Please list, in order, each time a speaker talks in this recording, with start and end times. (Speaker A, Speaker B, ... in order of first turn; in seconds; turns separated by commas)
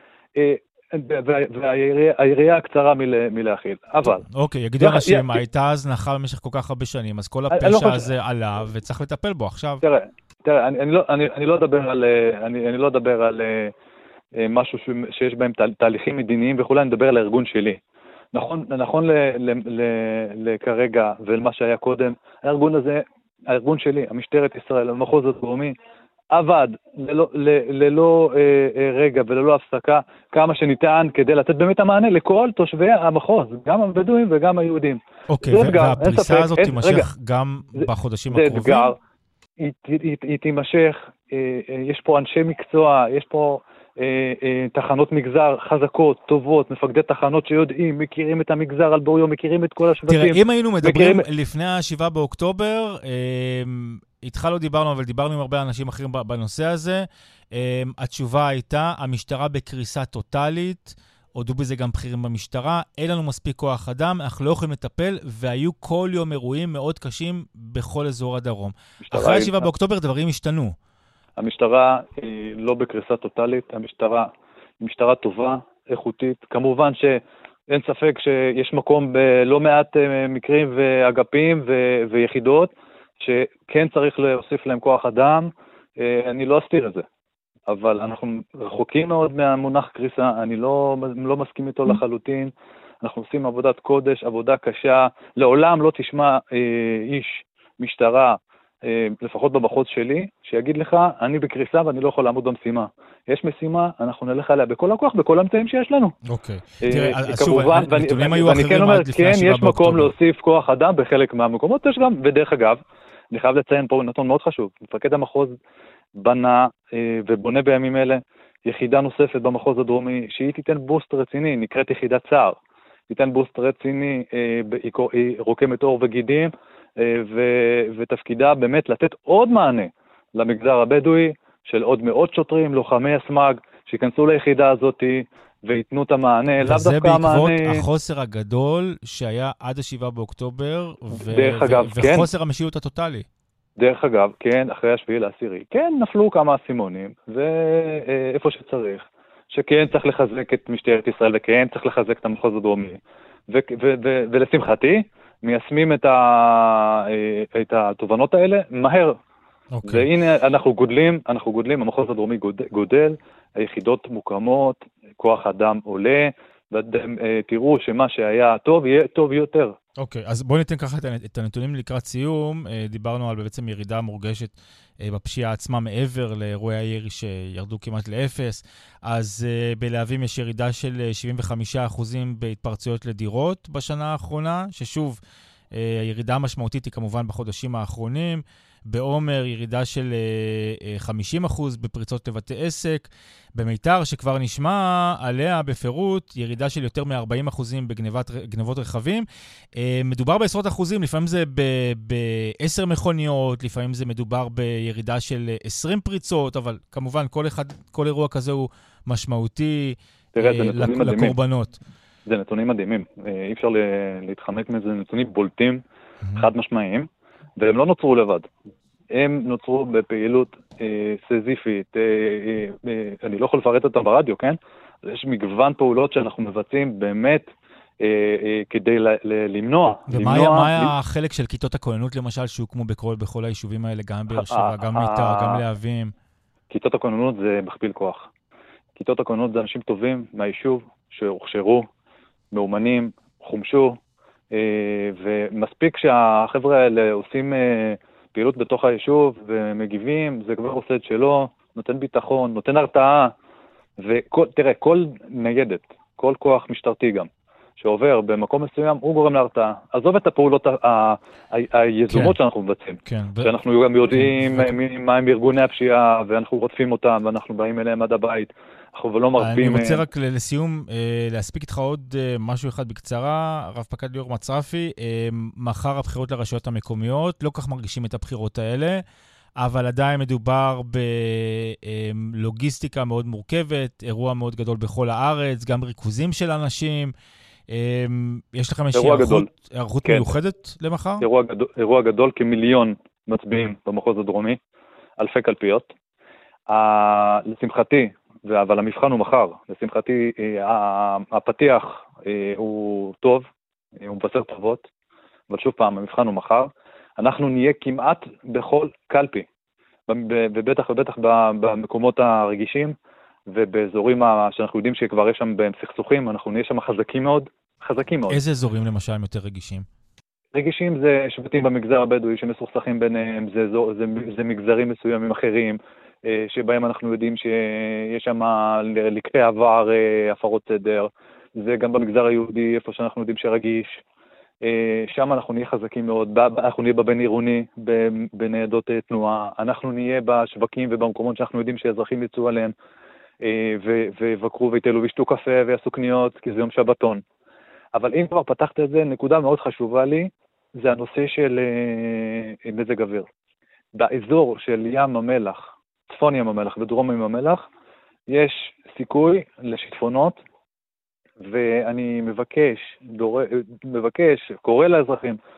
Speaker A: 0.4-4.3, Speaker B: 4.3-9.8, Speaker A: 4.8-5.4, Speaker A: 7.5-8.1, Speaker A: 9.8-13.7, Speaker A: 14.4-17.8, Speaker A: 18.3-25.8, Speaker A: 26.3-37.1, Speaker B: 35.3-38.9, Speaker A: 37.8-39.0, Speaker A: 39.6-51.3, Speaker B: 50.1-70.8, Speaker A: 69.0-69.7, Speaker A: 71.4-87.0, Speaker A: 87.7-92.5, Speaker A: 93.0-106.2, Speaker B: 106.3-110.1, Speaker A: 106.8-115.6, Speaker A: 116.2-122.6, Speaker A: 123.1-137.8, Speaker B: 136.6-143.3, Speaker A: 141.1-142.3, Speaker A: 143.8-153.0, Speaker A: 153.5-159.2, Speaker B: 159.8-160.1, Speaker A: 159.8-169.8, Speaker B: 170.0-185.2, Speaker B: 185.7-211.8, Speaker A: 210.3-211.3, Speaker A: 212.3-215.8, Speaker A: 216.4-218.5, Speaker A: 219.1-227.5, Speaker A: 228.0-230.9, Speaker B: 230.1-236.1, Speaker A: 234.3-235.6, Speaker A: 236.7-238.3, Speaker A: 239.0-241.9, Speaker A: 242.5-244.0, Speaker A: 244.5-253.3, Speaker A: 254.0-270.0, Speaker B: 262.1-262.4, Speaker B: 263.1-263.5, Speaker B: 264.1-264.8, Speaker B: 269.4-279.0, Speaker B: 279.6-287.1, Speaker B: 287.7-291.3, Speaker A: 288.9-289.5, Speaker A: 290.1-290.3, Speaker A: 291.2-294.6, Speaker A: 295.2-295.9, Speaker A: 296.7-303.5, Speaker A: 304.0-304.9, Speaker A: 305.5-309.5, Speaker A: 310.1-312.9, Speaker A: 313.5-318.4, Speaker B: 318.3-319.9, Speaker A: 320.5-334.0, Speaker A: 334.6-342.7, Speaker A: 343.4-347.2, Speaker A: 347.9-353.3, Speaker A: 353.9-357.6, Speaker A: 358.3-360.4, Speaker A: 361.4-365.4